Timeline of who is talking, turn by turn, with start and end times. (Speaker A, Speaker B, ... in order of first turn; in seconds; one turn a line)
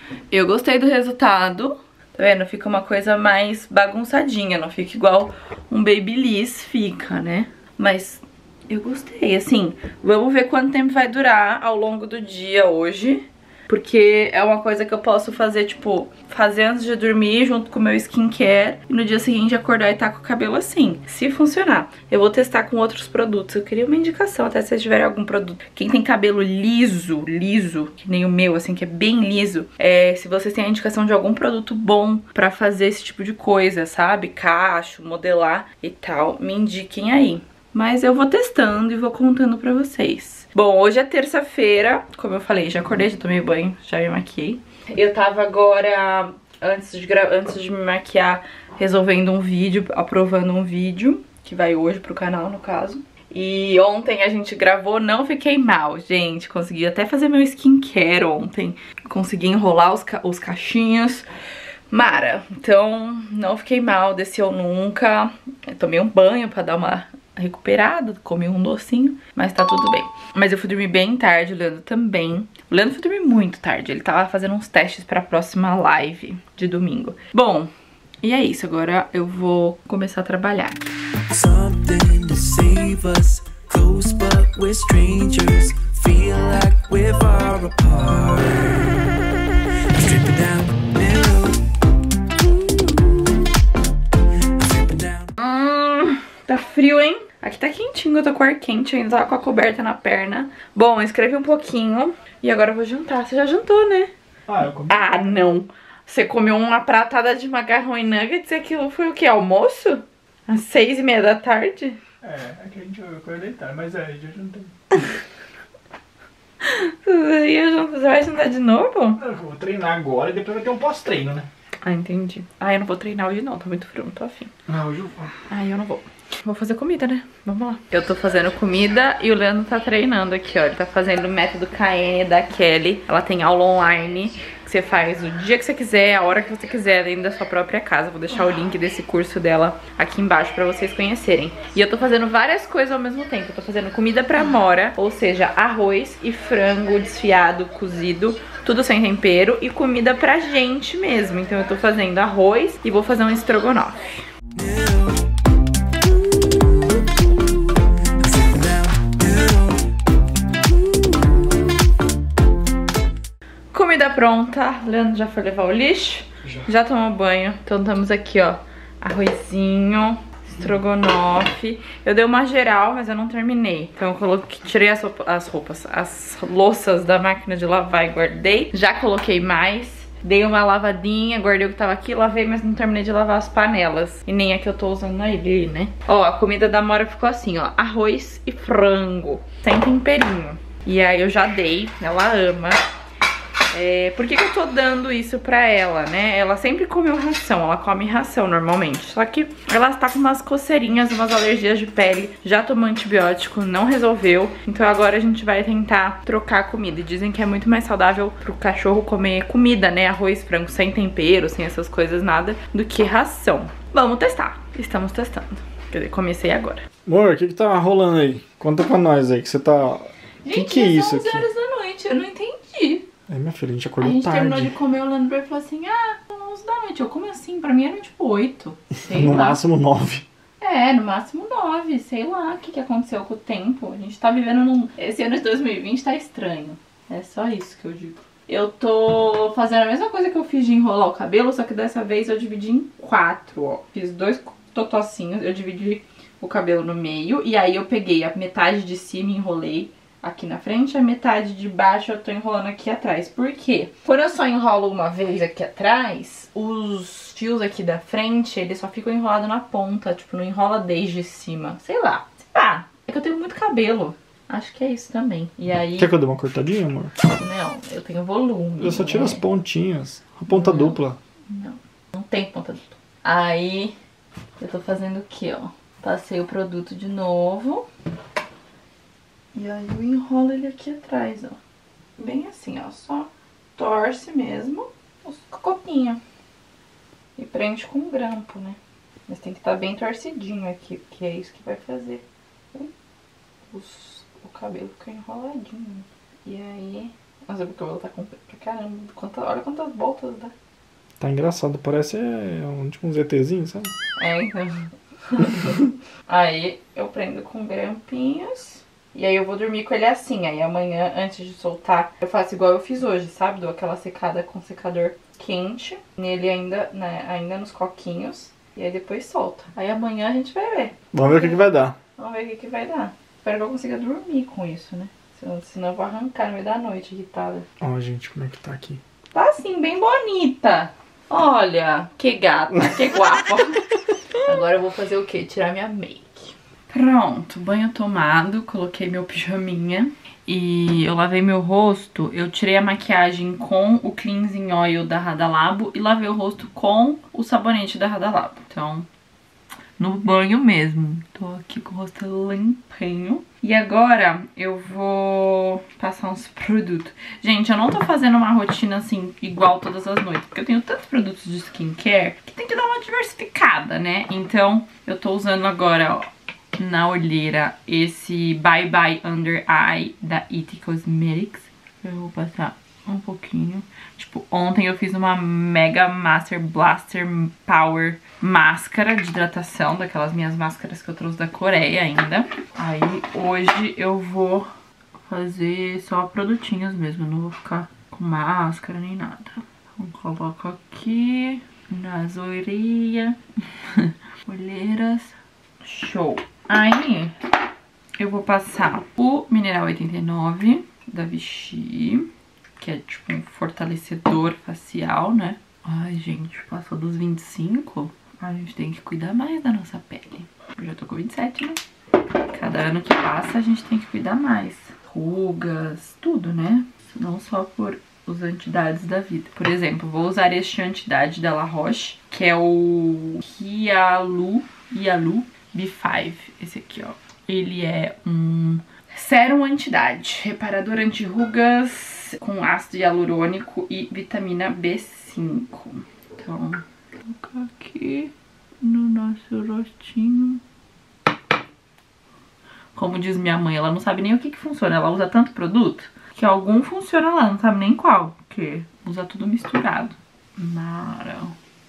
Speaker A: 0.3-61.2
Speaker A: 61.9-77.7
Speaker A: 78.2-80.8
Speaker B: 81.3-89.1
Speaker B: 89.9-91.7
Speaker B: 92.4-93.4
Speaker B: 94.5-95.3
Speaker A: 95.4-104.1
Speaker C: 104.5-105.2
Speaker A: 104.9-112.0
Speaker C: 112.2-115.1
Speaker A: 116.6-119.2
Speaker C: 119.2-121.5
Speaker A: 121.8-124.5
Speaker C: 124.7-125.3
Speaker A: 125.5-154.2
Speaker B: 154.5-155.3
Speaker B: 156.1-157.0
Speaker B: 158.2-159.9
Speaker B: 160.9-161.4
Speaker A: 163.7-192.8
Speaker C: 166.4-166.7
Speaker A: 193.7-216.8
Speaker C: 217.1-221.4
Speaker A: 220.4-223.1
Speaker C: 223.3-224.7
Speaker A: 224.0-229.6
Speaker C: 229.0-230.2
Speaker A: 230.6-266.1
Speaker C: 266.0-267.1
Speaker A: 267.4-269.4
Speaker C: 268.8-271.2
Speaker A: 270.5-273.9
Speaker A: 274.6-277.9
Speaker A: 279.5-281.6
Speaker A: 282.2-286.2
Speaker A: 287.4-292.9
Speaker A: 293.7-300.5
Speaker C: 301.2-303.9
Speaker A: 304.2-321.6
Speaker C: 321.1-322.0
Speaker A: 322.2-327.6
Speaker C: 327.8-329.0
Speaker A: 329.3-333.9
Speaker A: 334.4-349.1
Speaker A: 350.0-384.7
Speaker A: 385.3-393.4
Speaker A: 393.9-397.3
Speaker A: 398.2-411.8
Speaker A: 412.5-440.6
Speaker A: 442.9-451.5